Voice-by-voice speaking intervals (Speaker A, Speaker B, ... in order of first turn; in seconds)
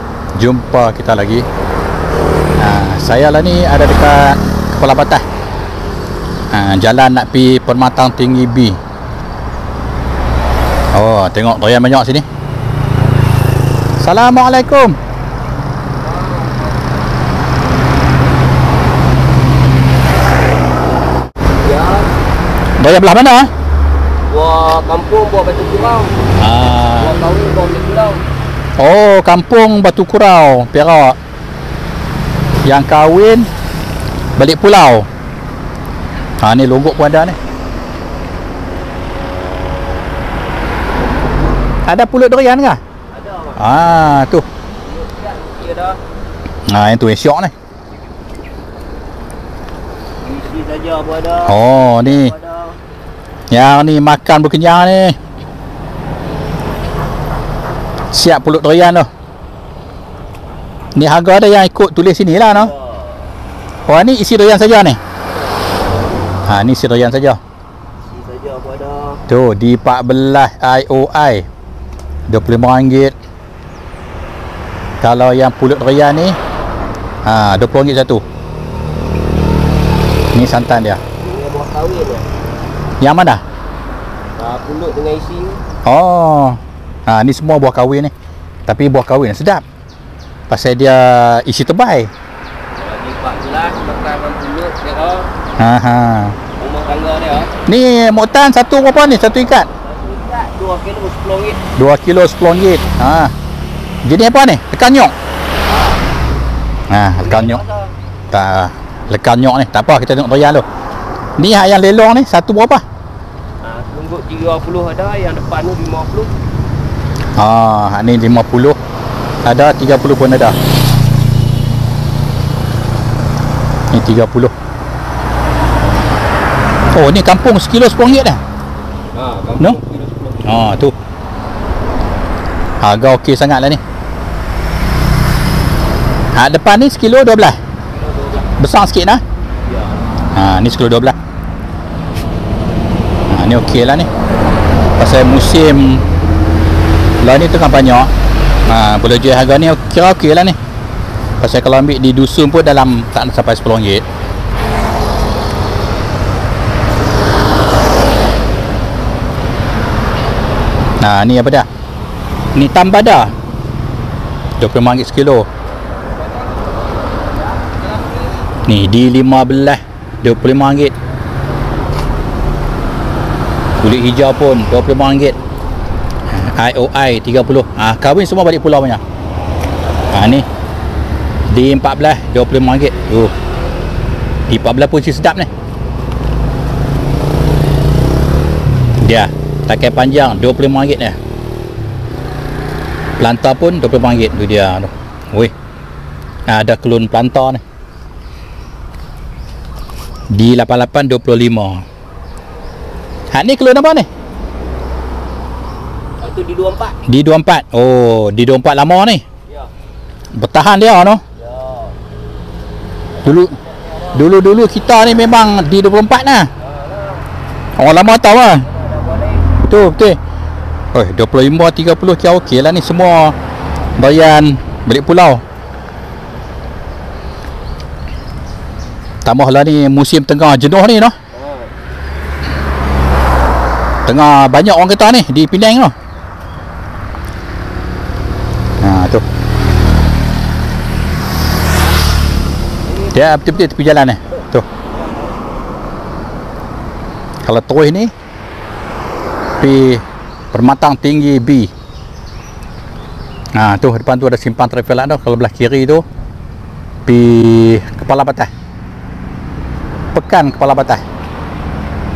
Speaker A: 0.4-1.4, 2.6-5.2, 6.5-8.8, 10.9-12.2, 14.0-14.9, 22.8-23.5, 26.4-27.1, 28.8-31.2, 32.6-33.5, 34.4-35.1, 36.4-37.4, 41.9-42.8, 43.5-44.5, 46.7-47.5, 51.4-52.3, 53.5-55.2, 58.1-59.1, 60.9-62.7, 63.9-65.0, 66.5-67.4, 69.3-71.5, 72.3-73.1, 75.0-76.4, 77.2-78.2, 80.3-81.0, 83.0-83.4, 85.8-88.1, 88.7-89.6, 90.5-92.1, 95.6-96.4, 97.7-99.7, 101.8-103.3, 104.0-105.1, 106.9-107.6, 108.3-110.7, 111.4-112.8, 117.4-118.8, 119.4-120.6, 123.9-124.5, 126.9-128.4, 130.4-130.9, 132.8-133.8, 136.3-137.6, 138.6-139.2, 140.3-141.2, 143.3-144.1, 145.0-146.0, 147.2-148.1, 148.7-150.6, 151.4-154.1, 161.0-161.7, 162.5-163.3, 164.6-165.5, 168.7-170.9, 173.8-175.4, 176.3-179.0, 180.1-180.4, 181.5-183.3, 184.5-185.5, 189.0-191.2, 193.2-195.5, 196.5-197.6, 200.3-201.8, 203.3-204.1, 207.1-209.2, 210.3-211.2, 213.2-213.6, 214.1-216.5, 217.8-218.7, 219.7-220.2, 220.9-223.3, 224.0-225.4, 229.2-231.1, 234.1-235.9, 238.8-239.2, 243.1-244.7, 247.4-248.1, 249.6-251.7, 253.6-256.0, 257.1-258.5, 260.1-261.0
Speaker B: 16.0-16.8, 21.6-22.1, 24.3-26.2, 26.9-28.2, 43.1-43.6, 44.8-46.0, 50.2-52.8, 62.5-63.3, 68.1-69.2, 81.2-82.3, 84.4-85.6, 92.8-95.3, 96.6-97.5, 99.8-101.6, 105.6-106.0, 107.2-107.9, 113.6-116.3, 129.1-130.6, 137.9-138.5, 139.7-140.0, 166.2-168.1, 206.2-207.0, 211.4-211.9, 213.2-214.2, 216.6-217.3, 218.6-219.6, 231.3-231.7, 242.9-243.6